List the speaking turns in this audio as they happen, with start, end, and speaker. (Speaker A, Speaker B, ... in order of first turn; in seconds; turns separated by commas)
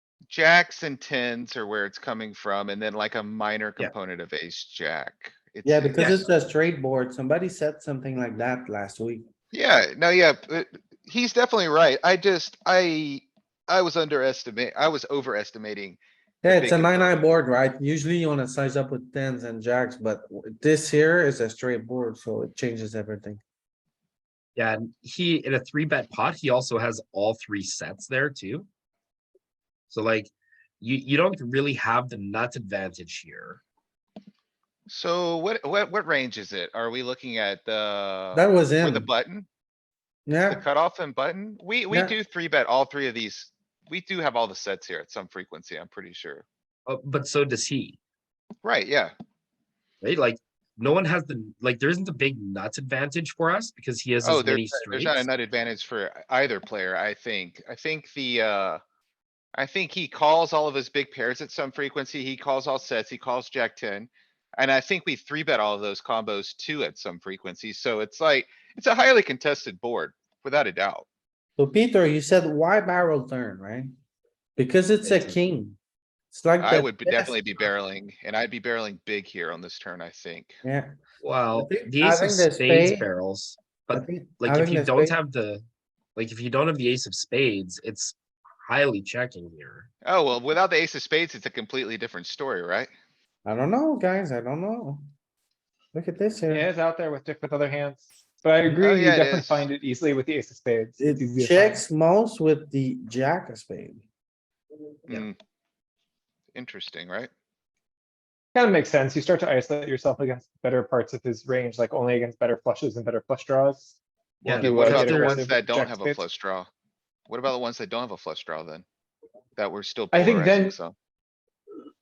Speaker A: 0.3-6.2, Speaker B: 5.7-9.3, Speaker A: 9.5-17.2, Speaker B: 16.4-23.4, Speaker C: 24.6-28.7, Speaker C: 29.9-30.3, Speaker C: 30.8-33.6, Speaker A: 34.9-39.5, Speaker B: 38.3-39.1, Speaker B: 40.3-40.6, Speaker A: 40.5-46.5, Speaker C: 46.9-48.0, Speaker A: 48.6-49.1, Speaker C: 50.0-55.3, Speaker A: 54.2-58.8, Speaker A: 59.5-71.1, Speaker B: 71.6-73.9, Speaker B: 74.6-75.8, Speaker B: 76.3-77.4, Speaker A: 76.6-80.6, Speaker B: 80.6-80.9, Speaker C: 81.2-85.7, Speaker B: 81.5-83.1, Speaker B: 83.9-85.2, Speaker C: 86.2-89.9, Speaker A: 90.0-92.9, Speaker B: 93.5-95.0, Speaker B: 95.9-96.7, Speaker D: 96.5-101.8, Speaker A: 98.8-99.7, Speaker B: 101.0-104.0, Speaker A: 105.1-105.4, Speaker A: 106.5-107.3, Speaker D: 108.5-113.9, Speaker A: 114.4-116.7, Speaker C: 114.5-115.5, Speaker D: 114.5-116.3, Speaker A: 117.3-118.8, Speaker A: 119.6-121.0, Speaker D: 120.1-120.8